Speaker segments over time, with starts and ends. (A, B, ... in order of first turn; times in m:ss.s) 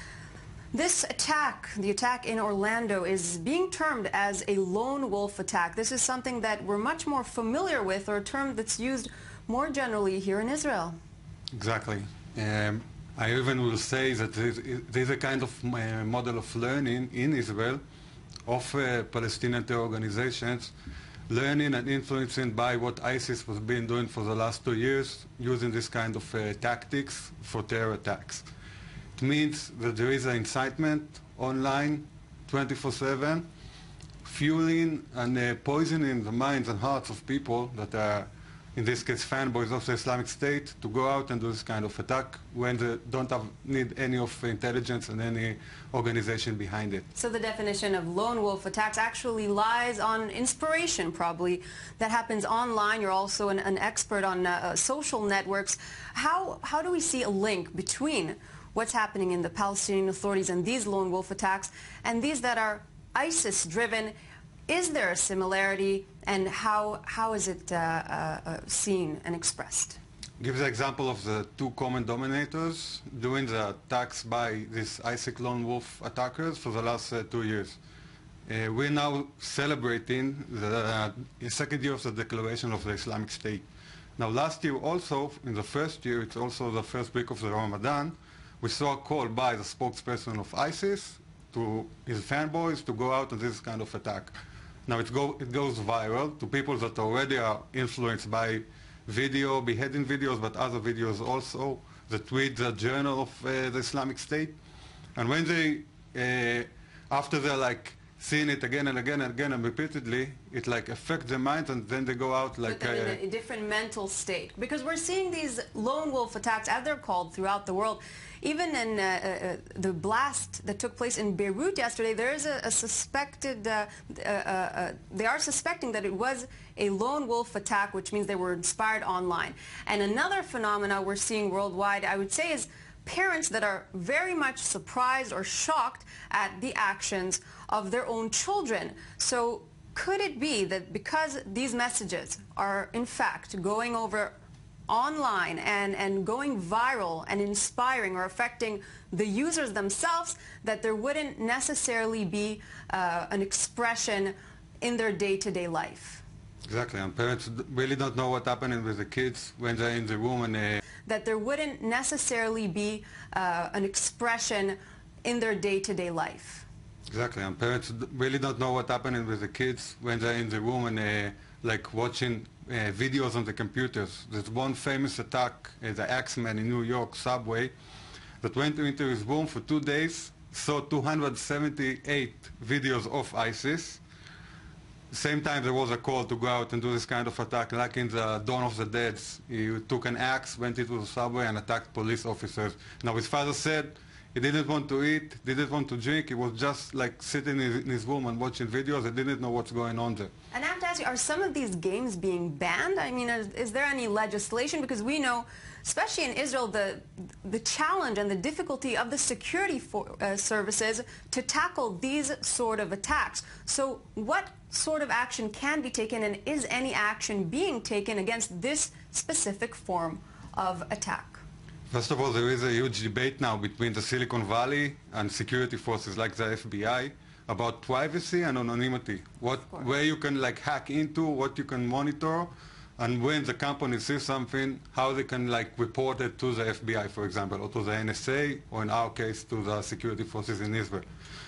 0:00.7-0:11.0 A
0:11.5-0:17.8 B
0:18.5-0:20.7 B
0:21.3-0:28.5 B
0:29.2-0:33.5 B
0:34.2-0:47.0 B
0:47.2-1:04.1 A
1:04.7-1:10.0 A
1:10.4-1:17.8 B
1:18.5-1:23.7 B
1:24.2-1:34.4 B
1:34.9-1:44.6 B
1:45.2-1:53.2 B
1:52.6-2:24.3 A
2:24.9-2:36.2 A
2:36.7-2:40.8 B
2:41.1-2:46.7 A
2:47.1-2:57.7 B
2:58.4-3:04.0 B
3:05.1-3:20.3 B
3:20.5-3:41.4 A
3:41.9-4:01.0 B